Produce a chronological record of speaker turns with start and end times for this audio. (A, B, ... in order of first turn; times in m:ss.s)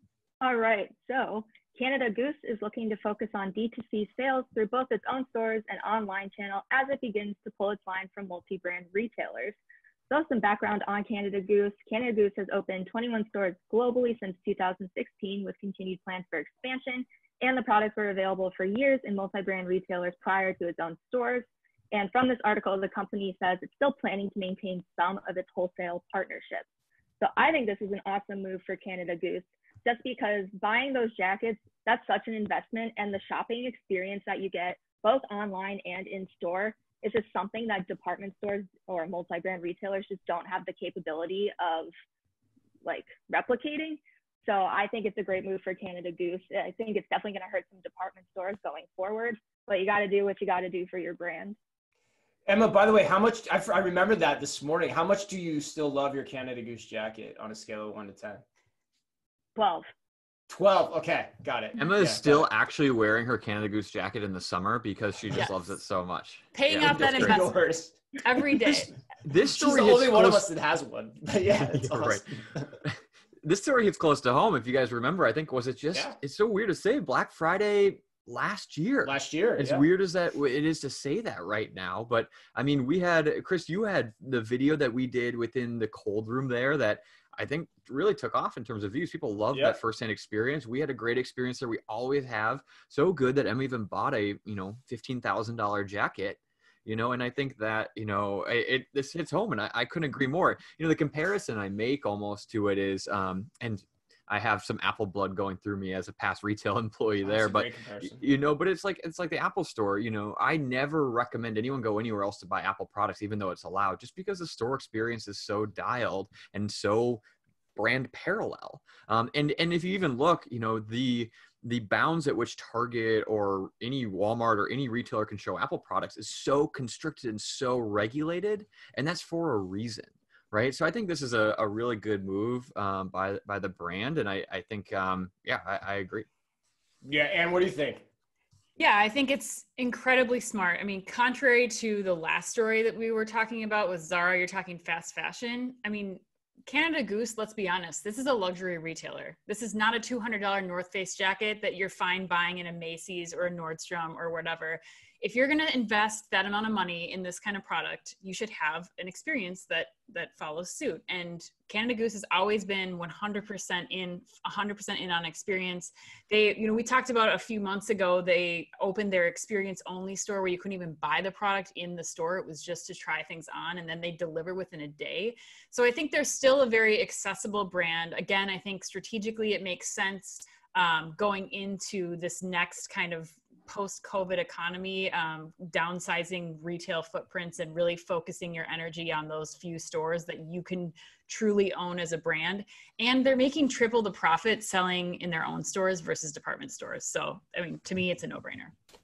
0:00.4-0:09.5 A
0:10.1-0:26.6 A
0:27.2-0:41.9 A
0:42.8-0:51.6 A
0:52.5-0:58.4 B
0:59.6-0:59.9 A
1:00.5-1:02.5 B
1:01.8-1:07.4 C
1:06.5-1:07.6 D
1:06.8-1:08.4 B
1:08.2-1:08.9 D
1:09.2-1:10.4 C
1:09.5-1:12.7 B
1:11.7-1:12.3 C
1:12.8-1:57.2 C
1:19.0-1:19.8 B
1:29.5-1:29.8 B
1:47.2-1:48.2 B
1:57.8-2:16.3 C
2:17.0-2:18.0 B
2:18.8-3:18.7 D